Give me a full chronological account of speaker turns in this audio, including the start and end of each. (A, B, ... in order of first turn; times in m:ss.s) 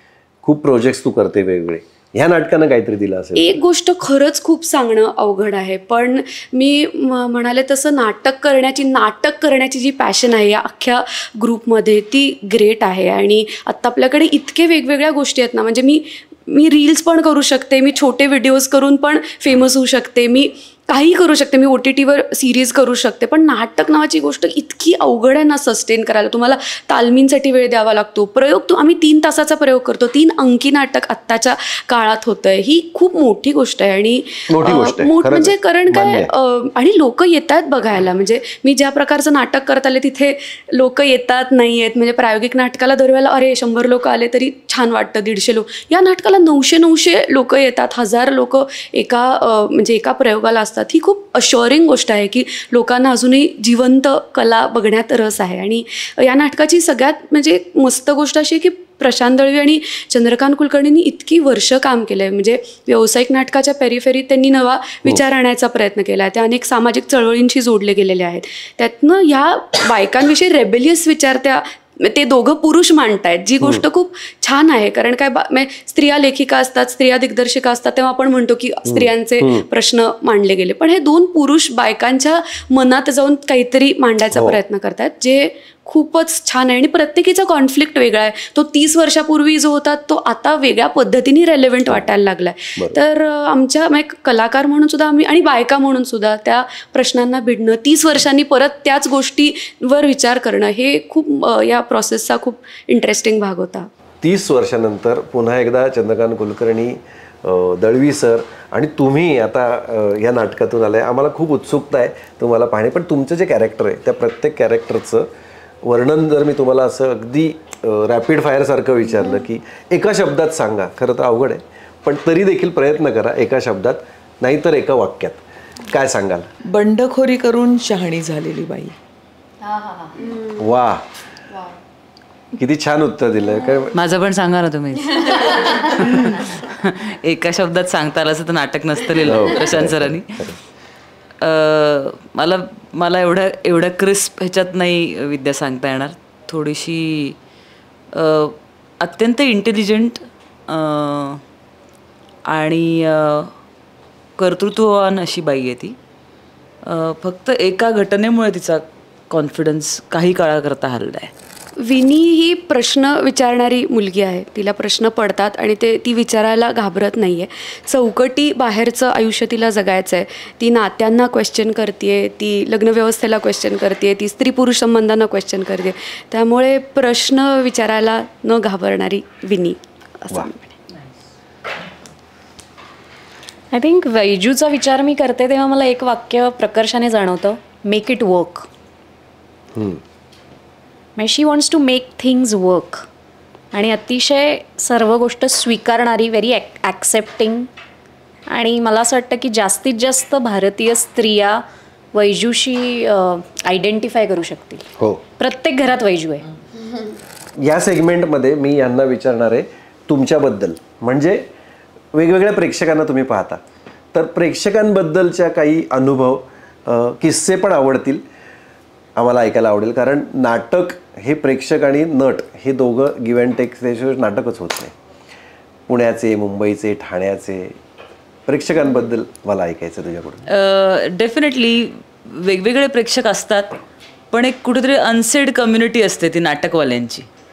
0:00.4-0:03.6 A
0:03.4-1:43.9 B
0:34.5-0:36.3 A
1:18.8-1:19.6 A
1:44.2-1:55.3 A
1:55.8-2:06.5 A
2:06.6-2:08.9 C
2:10.5-2:11.0 A
2:12.6-2:14.0 A
2:13.9-2:20.5 D
2:19.2-2:20.6 A
2:21.4-2:27.4 D
2:28.1-2:31.4 D
2:32.5-2:33.5 D
2:34.4-2:36.0 D
2:36.8-2:41.3 D
2:41.8-3:00.7 B
3:03.7-3:08.7 E
3:09.7-3:10.0 A
3:11.2-3:13.0 E
3:13.7-3:17.7 E
3:18.5-3:26.4 E
3:27.6-3:31.5 A
3:32.1-3:33.6 A
3:34.1-3:38.2 A
3:39.2-3:44.9 A
3:45.9-3:47.8 A
3:48.4-3:50.4 A
3:50.5-3:53.8 D
3:54.3-3:57.3 D